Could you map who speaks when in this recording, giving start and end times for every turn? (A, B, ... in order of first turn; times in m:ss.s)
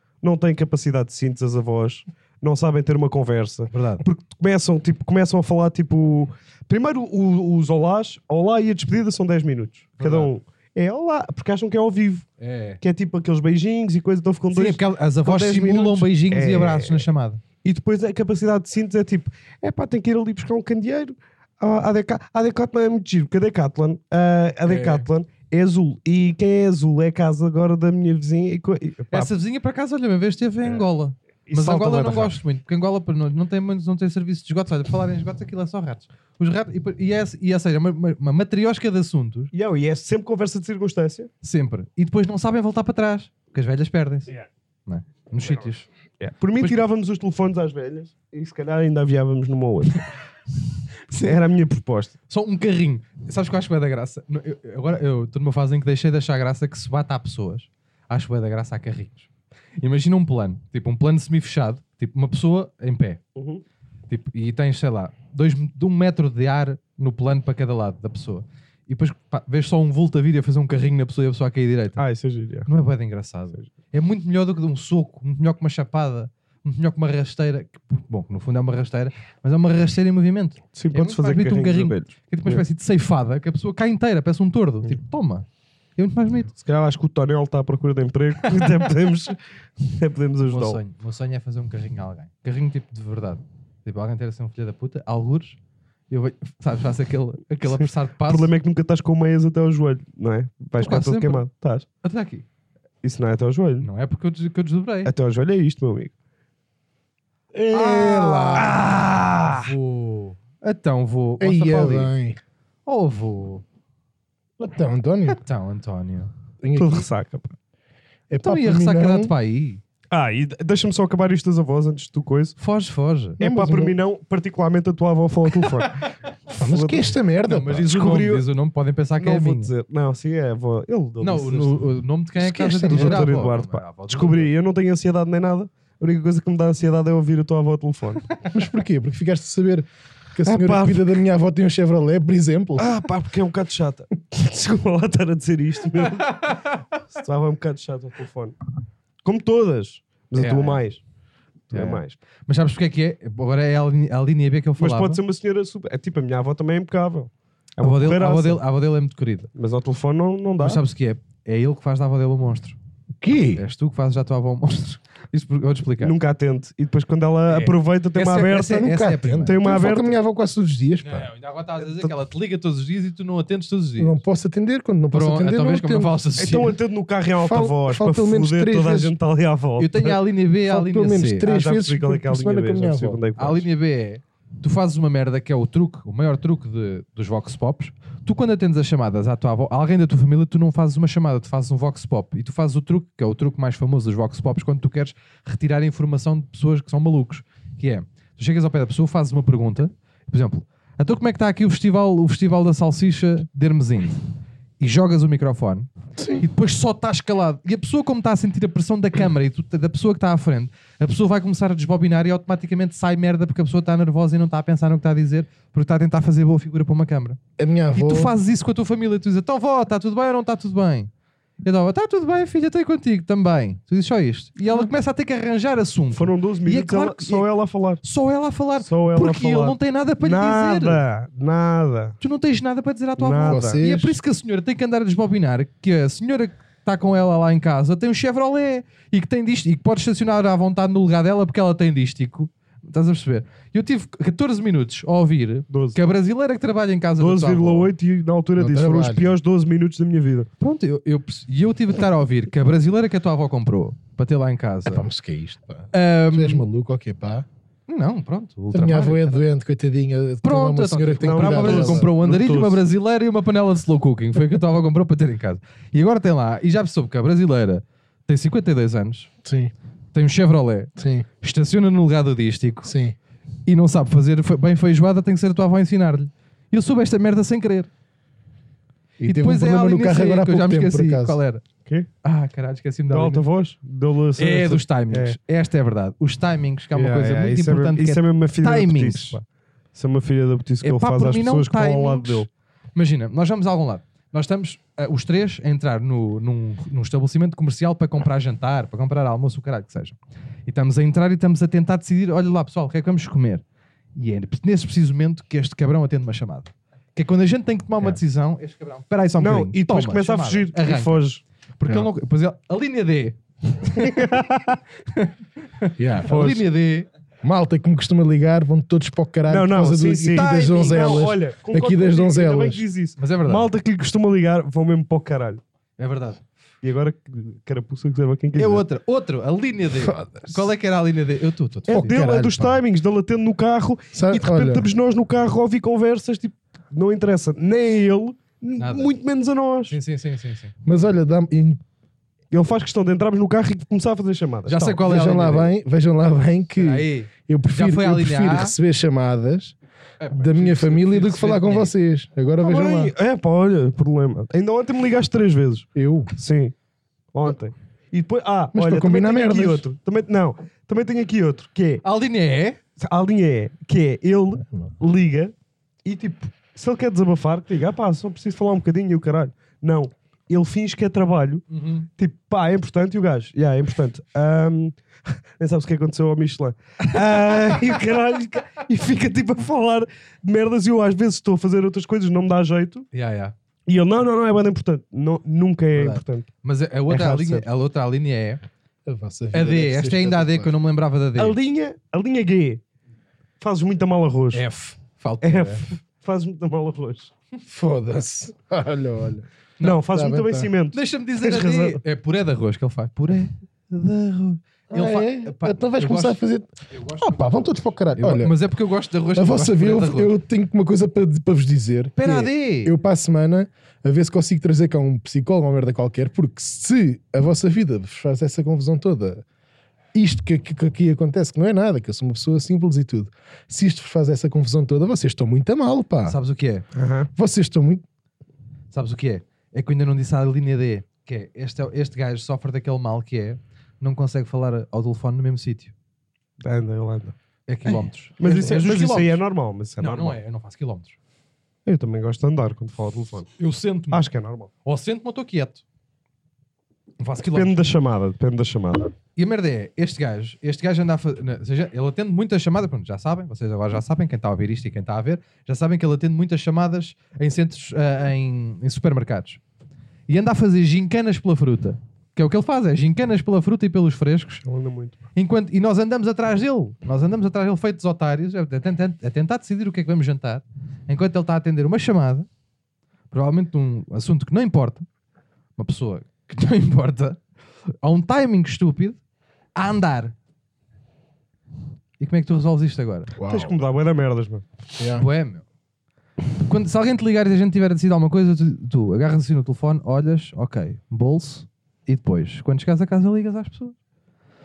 0:00.2-0:12.3 A
0:03.7-0:04.0 B
0:10.0-0:10.3 B
0:12.4-0:12.8 B
0:12.8-0:17.1 A
0:14.5-0:17.4 B
0:17.6-0:29.3 A
0:24.6-0:25.0 B
0:29.1-0:39.5 B
0:31.5-0:32.4 A
0:39.5-0:41.3 A
0:41.4-0:44.3 B
0:44.9-0:45.9 B
0:46.2-0:50.1 A
0:51.1-0:51.4 B
0:51.2-0:52.1 A
0:52.3-0:59.3 B
0:59.8-1:03.2 B
1:03.4-1:03.6 A
1:04.1-1:12.0 B
1:12.0-1:12.7 A
1:12.6-1:26.5 B
1:20.7-1:22.6 A
1:26.6-1:30.8 A
1:30.5-1:35.6 B
1:36.1-1:38.5 B
1:38.3-1:41.8 A
1:40.8-1:41.4 B
1:42.0-1:42.4 B
1:43.0-1:43.9 A
1:43.8-1:45.1 B
1:45.0-1:46.1 A
1:47.5-1:48.9 C
1:47.7-1:52.1 B
1:48.6-1:49.6 A
1:51.4-1:52.4 C
1:52.8-1:53.6 B
1:54.6-1:55.4 C
1:55.4-1:56.3 B
1:56.6-1:57.0 C
1:56.8-1:57.5 A
1:58.3-1:59.3 C
1:58.4-1:59.8 B
2:00.1-2:02.6 A
2:02.6-2:03.4 B
2:03.4-2:03.9 C
2:03.4-2:07.1 A
2:06.6-2:07.9 C
2:07.4-2:09.7 B
2:07.8-2:08.4 A
2:09.2-2:11.9 A
2:11.2-2:14.5 B
2:12.4-2:13.4 C
2:12.8-2:18.2 A
2:18.5-2:22.9 C
2:20.4-2:21.2 A
2:22.8-2:28.6 A
2:26.2-2:26.7 B
2:29.2-2:31.0 A
2:30.4-2:30.8 B
2:31.7-2:32.2 A
2:31.7-2:35.2 B
2:34.8-2:38.6 A
2:37.8-2:39.5 B
2:39.5-2:40.8 A
2:40.6-2:42.8 B
2:43.2-2:43.6 C
2:43.5-2:46.1 B
2:46.0-2:48.9 A
2:47.5-2:49.6 B
2:48.6-2:51.3 C
2:49.4-2:50.2 A
2:51.0-2:54.2 B
2:54.0-2:56.1 C
2:55.1-2:56.8 B
2:56.4-3:00.2 A
2:57.4-2:59.1 C
2:59.8-3:01.5 B
3:00.6-3:03.2 C
3:01.4-3:03.6 A
3:03.4-3:24.2 B
3:24.8-3:37.4 B
3:26.2-3:26.4 C
3:37.6-3:38.3 C
3:37.9-3:41.1 B
3:41.6-3:47.4 B
3:46.1-3:48.0 A
3:48.0-3:51.0 B
3:48.8-3:52.2 A
3:52.2-4:07.9 B
3:53.2-3:53.8 A
3:53.5-3:54.2 C
4:05.7-4:06.0 A
4:07.2-4:10.5 A
4:08.6-4:09.3 C
4:10.6-4:15.0 B
4:14.9-4:17.4 C
4:15.9-4:16.6 B
4:17.9-4:19.4 B
4:18.7-4:22.1 C
4:20.4-4:29.3 B
4:21.2-4:22.8 A
4:29.4-4:29.7 C
4:30.1-4:32.9 B
4:31.0-4:31.3 C
4:32.8-4:33.2 C
4:33.6-4:37.9 B
4:39.2-4:41.4 C
4:39.2-4:41.6 B
4:42.2-4:43.4 B
4:43.1-4:45.4 A
4:44.4-4:49.4 B
4:46.9-4:49.4 A
4:49.9-4:52.5 A
4:50.8-5:03.6 B
5:04.2-5:11.2 B
5:09.4-5:11.4 A
5:11.8-5:14.4 B
5:14.0-5:14.8 A
5:15.1-5:17.1 B
5:16.0-5:16.6 C
5:16.3-5:16.6 A
5:17.4-5:22.8 C
5:19.5-5:25.6 A
5:23.2-5:23.7 B
5:26.0-5:26.4 B
5:26.8-5:28.8 A
5:28.5-5:32.3 B
5:29.9-5:30.6 C
5:31.9-5:40.0 A
5:31.9-5:32.8 C
5:34.1-5:34.9 C
5:38.8-5:39.1 B
5:39.9-5:40.7 B
5:40.8-5:41.8 C
5:42.5-5:45.0 A
5:44.6-5:45.7 B
5:45.0-5:49.8 C
5:46.8-5:48.7 B
5:50.2-5:51.9 B
5:50.3-5:53.1 C
5:52.6-5:56.7 A
5:55.9-5:56.3 C
5:57.3-6:02.0 A
5:58.7-5:59.8 C
6:02.0-6:02.8 B
6:03.0-6:05.5 A
6:06.0-6:11.6 A
6:11.7-6:12.1 B
6:12.2-6:23.1 A
6:23.1-6:23.5 B
6:23.9-6:26.5 A
6:25.9-6:28.6 B
6:27.1-6:27.6 A
6:29.0-6:30.7 C
6:29.5-6:31.6 B
6:31.4-6:32.8 A
6:33.6-6:34.6 A
6:34.5-6:35.8 B
6:35.4-6:37.3 A
6:37.6-6:39.4 C
6:39.8-6:42.0 A
6:40.1-6:40.7 C
6:40.9-6:50.3 B
6:44.9-6:48.6 C
6:49.4-6:59.4 C
6:52.2-6:52.9 B
7:00.1-7:06.4 C
7:06.2-7:06.8 B
7:06.9-7:07.3 A
7:07.4-7:08.0 C
7:08.9-7:15.9 B
7:16.6-7:17.3 A
7:17.7-7:19.4 B
7:18.4-7:20.4 A
7:20.0-7:21.2 B
7:21.8-7:23.5 A
7:23.6-7:24.2 B
7:24.1-7:24.7 A
7:24.8-7:25.8 B
7:27.2-7:27.8 B
7:27.5-7:29.1 A
7:29.4-7:39.6 B
7:40.3-7:44.6 B
7:44.6-7:45.2 A
7:45.3-7:52.5 B
7:53.3-7:55.1 B
7:55.8-7:57.4 B
7:58.0-7:59.2 B
7:59.8-8:00.3 B
8:02.2-8:03.3 B
8:03.4-8:03.8 C
8:03.4-8:04.6 A
8:05.0-8:05.2 C
8:05.2-8:05.6 B
8:06.6-8:14.0 B